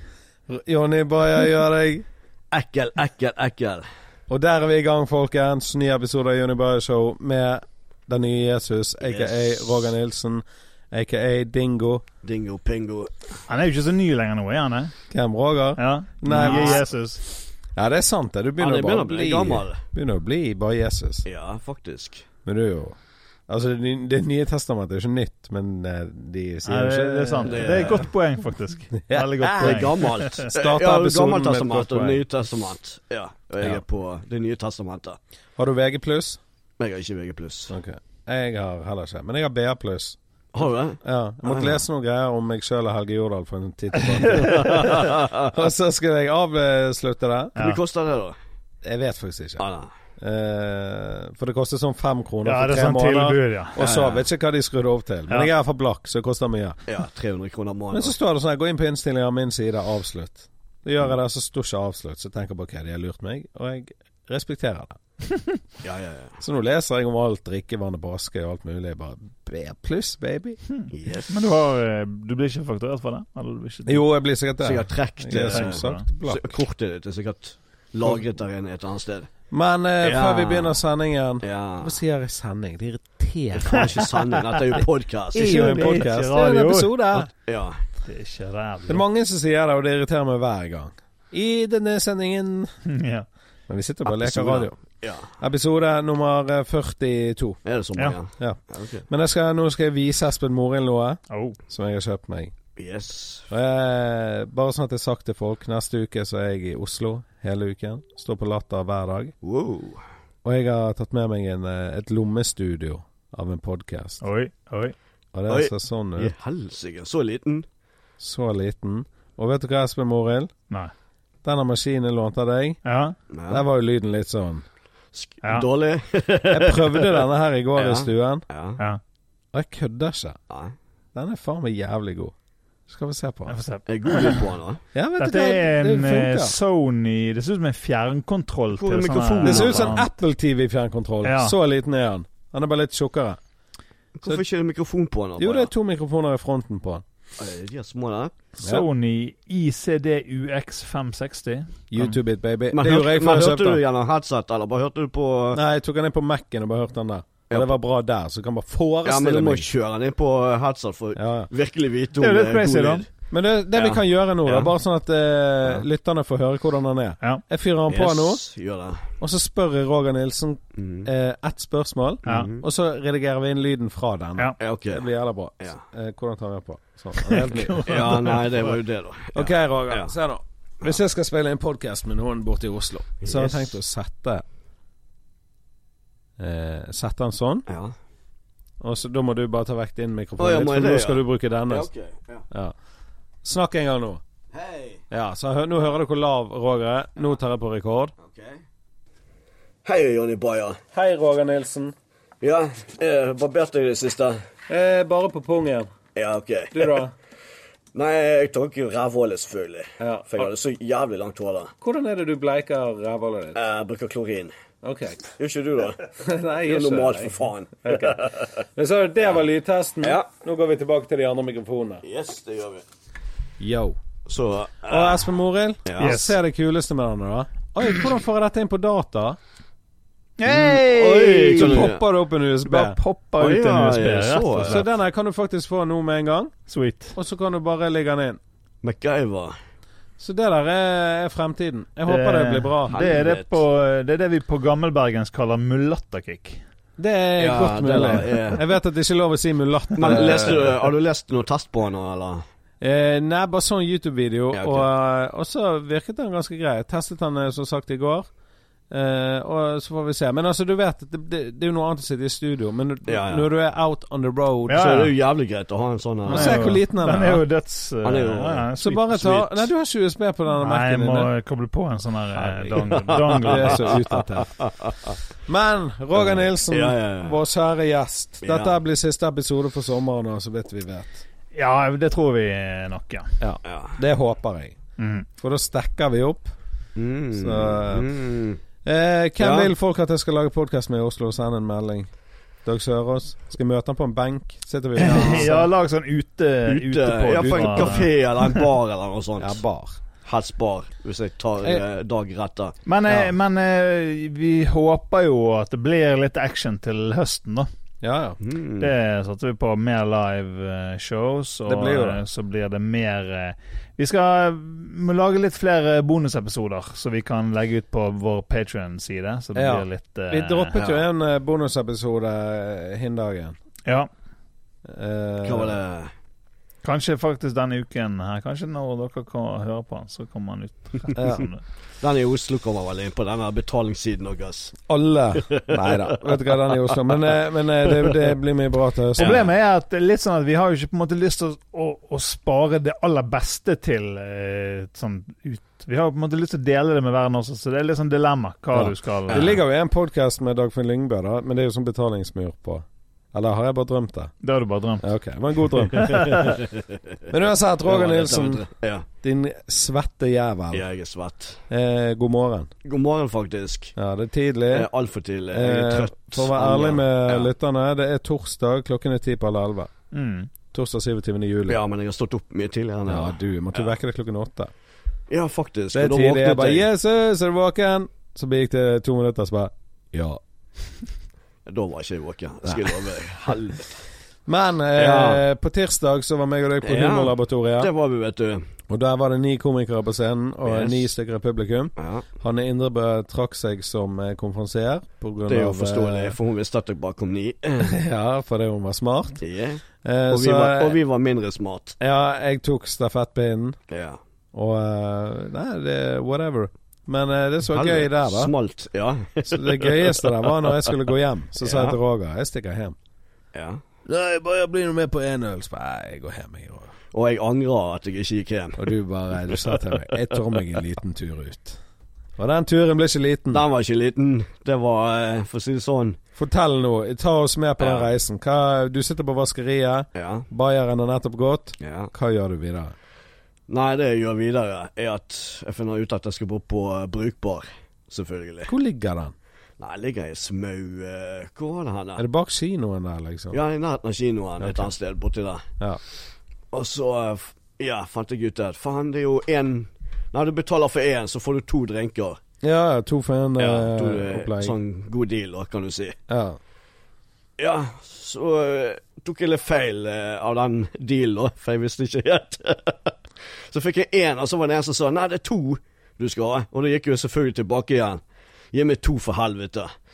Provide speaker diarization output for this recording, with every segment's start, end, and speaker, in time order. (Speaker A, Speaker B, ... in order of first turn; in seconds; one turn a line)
Speaker A: 0.5-2.0
Speaker B: 2.5-3.9
Speaker A: 4.3-12.1
Speaker B: 9.0-9.9
Speaker B: 12.2-13.2
Speaker C: 13.5-14.9
Speaker A: 15.1-16.9
Speaker C: 15.8-17.2
Speaker B: 16.3-16.8
Speaker A: 17.8-21.3
Speaker B: 18.6-19.8
Speaker B: 21.2-22.2
Speaker A: 22.5-23.0
Speaker A: 23.5-28.1
Speaker C: 26.7-30.5
Speaker B: 27.4-28.1
Speaker A: 29.1-32.2
Speaker B: 29.6-35.2
Speaker A: 35.6-36.4
Speaker B: 36.8-37.7
Speaker A: 37.7-40.2
Speaker B: 40.5-41.8
Speaker A: 41.0-47.6
Speaker B: 44.3-45.5
Speaker B: 47.6-48.4
Speaker A: 48.8-49.6
Speaker B: 49.6-49.9
Speaker A: 50.2-56.8
Speaker C: 52.4-53.8
Speaker B: 53.8-54.3
Speaker B: 56.9-58.1
Speaker A: 57.9-65.0
Speaker B: 65.8-66.4
Speaker A: 66.4-70.6
Speaker C: 70.7-74.0
Speaker B: 70.9-71.4
Speaker A: 73.9-76.7
Speaker B: 74.6-79.3
Speaker C: 75.5-76.0
Speaker A: 79.5-84.1
Speaker B: 80.0-80.8
Speaker B: 81.4-82.0
Speaker B: 83.6-85.9
Speaker A: 85.3-87.3
Speaker C: 85.3-87.2
Speaker B: 87.5-87.8
Speaker C: 88.0-89.0
Speaker A: 88.9-92.7
Speaker C: 92.9-93.3
Speaker A: 93.7-94.8
Speaker B: 94.1-95.3
Speaker A: 95.4-97.6
Speaker B: 97.7-99.1
Speaker A: 98.4-102.5
Speaker C: 101.3-101.6
Speaker B: 102.8-103.5
Speaker A: 103.5-109.3
Speaker B: 109.4-110.0
Speaker A: 110.4-114.2
Speaker C: 114.2-115.0
Speaker A: 115.3-116.3
Speaker B: 115.5-117.7
Speaker A: 118.2-120.5
Speaker A: 121.4-122.8
Speaker C: 122.8-123.2
Speaker B: 123.3-123.6
Speaker A: 123.5-124.6
Speaker B: 125.1-127.2
Speaker A: 126.5-128.4
Speaker B: 127.8-128.8
Speaker A: 129.5-130.4
Speaker A: 131.2-132.3
Speaker A: 132.9-133.6
Speaker C: 133.5-134.5
Speaker B: 133.9-134.8
Speaker A: 134.9-136.6
Speaker C: 135.2-140.1
Speaker B: 138.7-140.0
Speaker A: 139.4-143.4
Speaker C: 141.2-141.6
Speaker B: 144.2-145.7
Speaker A: 145.4-147.0
Speaker B: 147.4-148.3
Speaker A: 148.6-148.9
Speaker C: 148.6-152.2
Speaker A: 151.9-153.8
Speaker B: 152.7-155.6
Speaker A: 155.5-159.7
Speaker B: 159.1-163.1
Speaker A: 161.2-161.5
Speaker C: 162.2-163.1
Speaker A: 163.3-168.4
Speaker B: 163.7-164.7
Speaker B: 167.9-169.1
Speaker A: 169.2-178.3
Speaker B: 170.8-171.1
Speaker B: 172.3-172.7
Speaker B: 174.6-175.8
Speaker C: 177.2-178.5
Speaker B: 177.7-180.1
Speaker A: 179.3-184.4
Speaker B: 183.2-183.8
Speaker A: 186.4-187.7
Speaker B: 187.7-187.9
Speaker A: 188.8-191.9
Speaker B: 190.4-192.4
Speaker A: 193.4-194.2
Speaker B: 194.5-195.1
Speaker A: 195.1-198.1
Speaker B: 198.2-198.6
Speaker B: 199.8-200.8
Speaker A: 200.9-201.9
Speaker B: 202.4-204.4
Speaker A: 204.7-205.9
Speaker B: 206.2-207.0
Speaker A: 206.7-207.1
Speaker B: 207.9-211.7
Speaker A: 210.0-210.5
Speaker A: 211.8-213.6
Speaker B: 213.6-214.5
Speaker A: 214.8-215.3
Speaker B: 215.4-216.1
Speaker A: 216.0-222.0
Speaker B: 216.7-218.5
Speaker B: 220.0-220.3
Speaker B: 222.0-222.8
Speaker A: 223.6-224.0
Speaker B: 224.3-225.3
Speaker A: 224.9-229.4
Speaker B: 225.9-226.2
Speaker C: 226.0-226.4
Speaker C: 230.4-231.9
Speaker A: 230.5-230.8
Speaker B: 230.8-232.0
Speaker A: 231.5-233.0
Speaker C: 232.6-234.9
Speaker B: 233.4-234.8
Speaker A: 234.7-236.5
Speaker C: 236.7-237.2
Speaker A: 237.2-238.4
Speaker B: 238.8-239.6
Speaker A: 240.2-243.1
Speaker C: 242.1-246.6
Speaker B: 242.9-243.6
Speaker A: 247.0-250.9
Speaker B: 247.4-248.6
Speaker B: 250.0-252.4
Speaker A: 252.8-258.3
Speaker B: 254.5-254.9
Speaker A: 258.9-265.1
Speaker B: 263.1-263.5
Speaker C: 264.7-265.1
Speaker B: 264.8-266.8
Speaker A: 266.3-267.4
Speaker C: 266.3-269.7
Speaker B: 268.0-268.7
Speaker A: 268.8-271.3
Speaker C: 270.6-274.0
Speaker B: 272.7-275.2
Speaker A: 273.4-274.5
Speaker A: 275.5-281.2
Speaker B: 276.1-277.4
Speaker B: 278.4-278.8
Speaker C: 281.5-283.3
Speaker A: 283.4-284.8
Speaker B: 283.6-284.0
Speaker C: 285.0-285.3
Speaker A: 285.4-286.5
Speaker B: 287.0-288.6
Speaker A: 287.4-288.1
Speaker A: 288.8-292.1
Speaker B: 289.4-289.7
Speaker A: 292.6-295.7
Speaker C: 295.0-298.7
Speaker B: 295.1-295.5
Speaker B: 296.7-299.6
Speaker A: 299.4-300.0
Speaker B: 300.2-302.8
Speaker C: 302.9-307.7
Speaker A: 303.1-303.3
Speaker A: 308.0-308.4
Speaker B: 308.4-308.9
Speaker C: 308.8-320.9
Speaker A: 311.7-312.2
Speaker A: 319.6-323.6
Speaker A: 324.9-325.8
Speaker B: 325.4-326.1
Speaker C: 326.8-331.6
Speaker A: 331.2-331.5
Speaker B: 332.0-334.8
Speaker A: 334.9-339.5
Speaker B: 335.4-337.2
Speaker C: 339.2-349.5
Speaker B: 339.2-339.4
Speaker A: 348.7-354.3
Speaker B: 349.3-349.6
Speaker C: 354.4-355.1
Speaker A: 355.0-356.6
Speaker C: 355.9-356.5
Speaker B: 356.0-356.9
Speaker A: 357.3-358.6
Speaker B: 357.9-359.1
Speaker A: 359.2-360.9
Speaker B: 360.7-361.6
Speaker A: 361.7-362.7
Speaker B: 362.9-363.9
Speaker A: 364.0-364.9
Speaker B: 364.7-367.5
Speaker A: 365.5-369.9
Speaker C: 370.1-370.5
Speaker A: 370.7-371.8
Speaker B: 371.7-373.9
Speaker A: 373.1-374.7
Speaker B: 375.3-376.9
Speaker A: 375.9-380.4
Speaker B: 381.7-384.0
Speaker A: 382.7-383.6
Speaker A: 384.5-387.9
Speaker B: 385.0-385.4
Speaker B: 386.8-388.7
Speaker A: 388.9-396.4
Speaker B: 390.6-391.1
Speaker B: 392.0-392.3
Speaker B: 395.5-398.0
Speaker A: 397.9-399.4
Speaker B: 399.4-402.0
Speaker A: 400.0-401.0
Speaker A: 402.0-403.8
Speaker B: 403.9-404.2
Speaker A: 404.5-408.5
Speaker B: 407.7-410.9
Speaker A: 409.5-413.0
Speaker B: 411.6-412.0
Speaker B: 413.6-413.8
Speaker A: 414.1-416.9
Speaker B: 417.1-418.9
Speaker A: 418.8-421.8
Speaker B: 419.5-420.6
Speaker A: 422.4-423.6
Speaker B: 423.5-426.2
Speaker A: 426.4-432.9
Speaker B: 427.8-428.1
Speaker B: 430.1-430.5
Speaker B: 431.8-432.1
Speaker B: 433.7-438.7
Speaker A: 438.7-439.3
Speaker B: 439.8-442.2
Speaker A: 442.2-443.6
Speaker B: 443.5-445.7
Speaker A: 444.6-444.9
Speaker B: 446.7-452.4
Speaker A: 452.6-454.8
Speaker B: 453.6-456.2
Speaker A: 456.3-456.6
Speaker B: 457.6-468.2
Speaker B: 468.7-469.9